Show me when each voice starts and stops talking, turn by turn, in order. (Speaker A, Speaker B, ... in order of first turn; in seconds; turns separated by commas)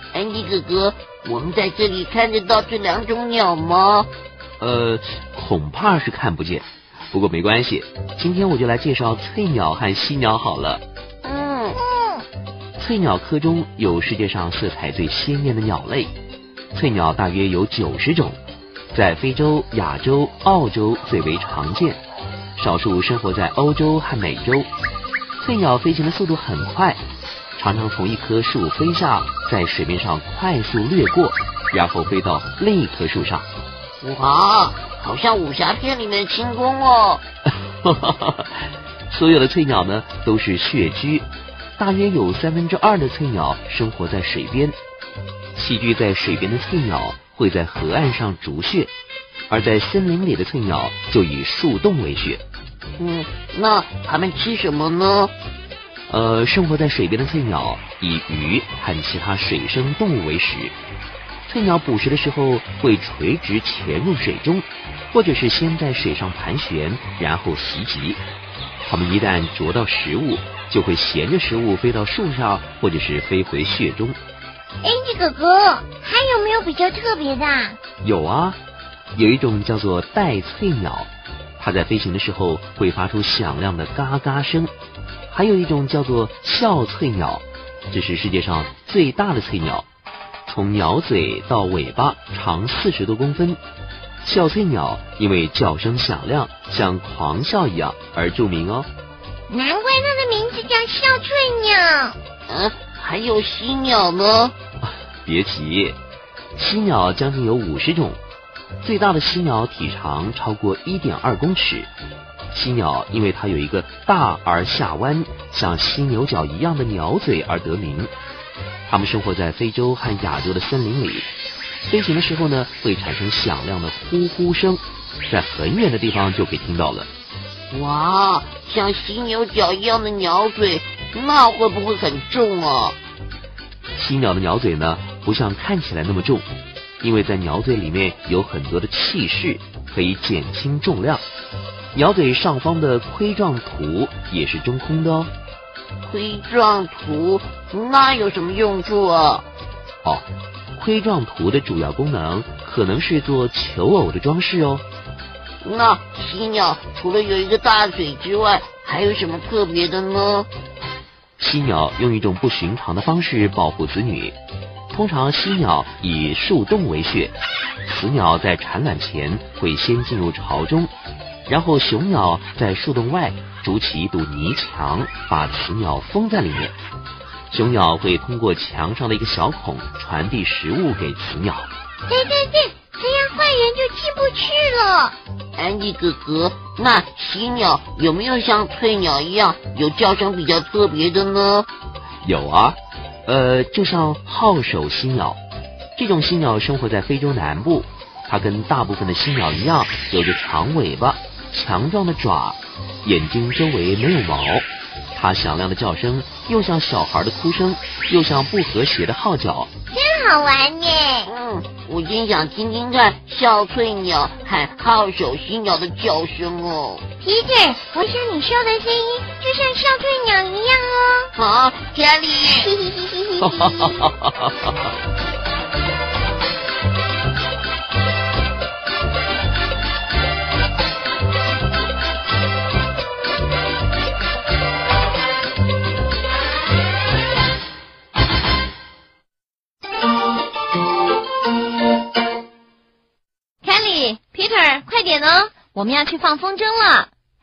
Speaker A: 0.1-4.1, Speaker B: 4.6-10.8, Speaker A: 11.2-11.8, Speaker C: 12.0-12.2, Speaker B: 12.8-16.1, Speaker B: 16.7-18.4, Speaker B: 18.9-22.0, Speaker B: 22.6-24.7, Speaker B: 25.4-27.0, Speaker B: 27.6-33.5, Speaker A: 34.0-37.2, Speaker B: 37.8-41.2, Speaker B: 41.8-44.8, Speaker B: 45.5-48.9, Speaker B: 49.5-52.4, Speaker A: 53.0-55.3, Speaker B: 56.1-60.7, Speaker B: 61.5-68.2, Speaker B: 68.8-74.2, Speaker C: 74.8-77.8, Speaker B: 78.0-78.6, Speaker B: 79.1-84.7, Speaker B: 85.3-89.8, Speaker B: 90.5-93.6, Speaker B: 94.2-98.9, Speaker C: 99.5-102.2, Speaker A: 102.5-104.5, Speaker B: 105.2-106.0, Speaker B: 106.5-108.2, Speaker B: 108.8-111.9, Speaker B: 112.5-118.1, Speaker B: 118.9-121.3, Speaker B: 121.9-127.1, Speaker A: 127.7-133.0, Speaker B: 133.9-136.4, Speaker B: 137.0-141.2, Speaker B: 141.9-145.3, Speaker A: 146.1-149.4, Speaker B: 150.0-154.8, Speaker A: 155.6-160.5, Speaker B: 161.4-164.3, Speaker B: 164.9-167.3, Speaker B: 167.8-170.9, Speaker B: 171.5-176.7, Speaker B: 177.5-181.7, Speaker C: 182.1-185.2, Speaker A: 185.6-191.7, Speaker B: 192.2-195.4, Speaker B: 195.9-209.7, Speaker C: 209.9-211.3, Speaker A: 211.2-217.1, Speaker C: 217.2-221.3, Speaker A: 221.3-222.8, Speaker C: 222.7-223.8, Speaker B: 223.4-224.7, Speaker D: 243.6-247.1